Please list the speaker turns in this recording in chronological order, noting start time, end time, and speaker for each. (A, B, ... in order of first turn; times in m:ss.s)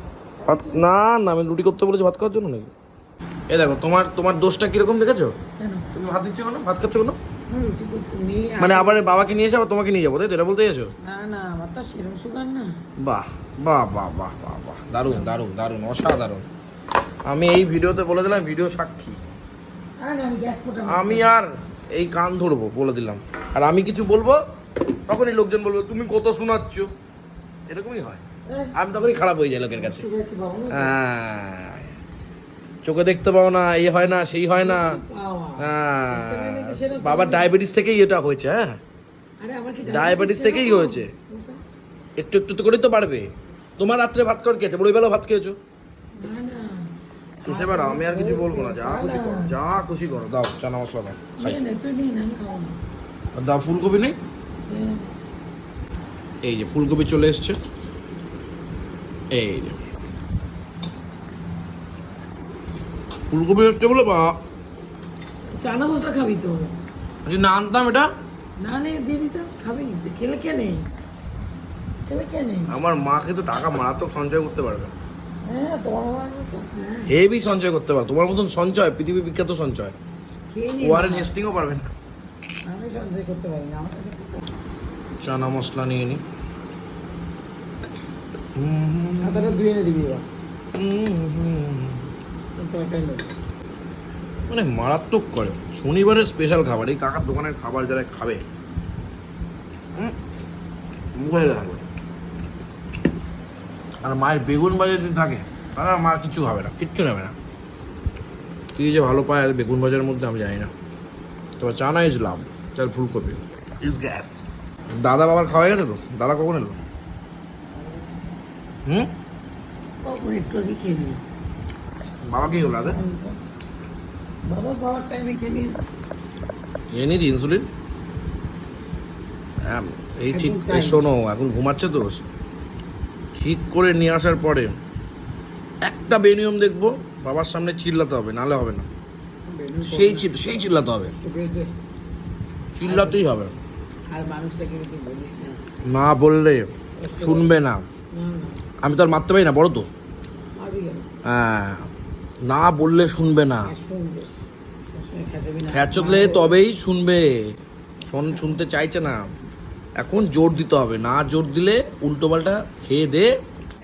0:00.4-0:00.8 A
0:00.4-0:02.7 B
0:03.5-0:05.4 B
0:05.6-0:05.9 A
0:05.9-0:07.2 B
0:07.5-0:09.0 A
0:08.6-0:10.9 B
0:11.0-0:12.8 A
0:13.0-0:16.4 B
0:15.0-0:15.4 A
0:17.2-0:19.2 B
0:20.0-0:21.3 A
0:20.8-0:24.4 B
0:25.1-0:26.9 B
0:27.7-0:28.2 B
0:28.7-0:30.0 B
0:29.7-0:30.9 A
0:30.7-0:31.9 B
0:32.8-0:35.0 B
0:34.6-0:37.5 A
0:35.6-0:38.8 B
0:39.4-0:41.6 A
0:39.8-0:41.1 B
0:42.2-0:45.6 B
0:46.2-0:49.5 A
0:47.4-0:51.6 B
0:51.4-0:52.8 A
0:53.3-0:54.2 B
0:54.7-0:55.0 A
0:56.4-0:57.6 B
0:59.3-0:59.8 B
1:03.3-1:04.4 B
1:05.5-1:06.8 A
1:07.2-1:08.1 B
1:08.6-1:10.8 A
1:12.0-1:12.7 A
1:12.7-1:14.9 B
1:15.4-1:17.1 A
1:17.1-1:19.9 B
1:20.5-1:21.3 A
1:20.8-1:21.9 B
1:22.6-1:24.4 A
1:25.2-1:26.2 B
1:28.6-1:29.5 B
1:29.2-1:30.2 A
1:30.7-1:32.1 B
1:32.6-1:33.2 A
1:34.5-1:38.4 B
1:41.2-1:41.8 B
1:44.0-1:47.3 B
1:48.7-1:50.7 B
1:51.6-1:56.8 B
1:57.7-1:58.6 A
1:58.8-1:59.1 B
2:00.0-2:01.2 A
2:02.2-2:03.0 B
2:02.6-2:03.4 A
2:04.5-2:05.8 A
2:06.9-2:07.7 B
2:09.7-2:12.2 B
2:10.3-2:11.0 A
2:13.4-2:14.7 B
2:15.8-2:18.9 B
2:19.5-2:20.3 A
2:19.8-2:21.1 B
2:21.1-2:21.7 A
2:22.8-2:23.5 B
2:22.8-2:23.2 A
2:24.1-2:25.6 A
2:25.9-2:27.8 B
2:27.0-2:27.5 A
2:28.1-2:28.6 A
2:28.8-2:29.9 B
2:30.6-2:31.1 A
2:31.2-2:31.9 B
2:32.5-2:33.7 B
2:33.6-2:34.3 A
2:34.9-2:36.6 A
2:35.7-2:37.5 B
2:38.1-2:39.3 B
2:40.0-2:43.3 B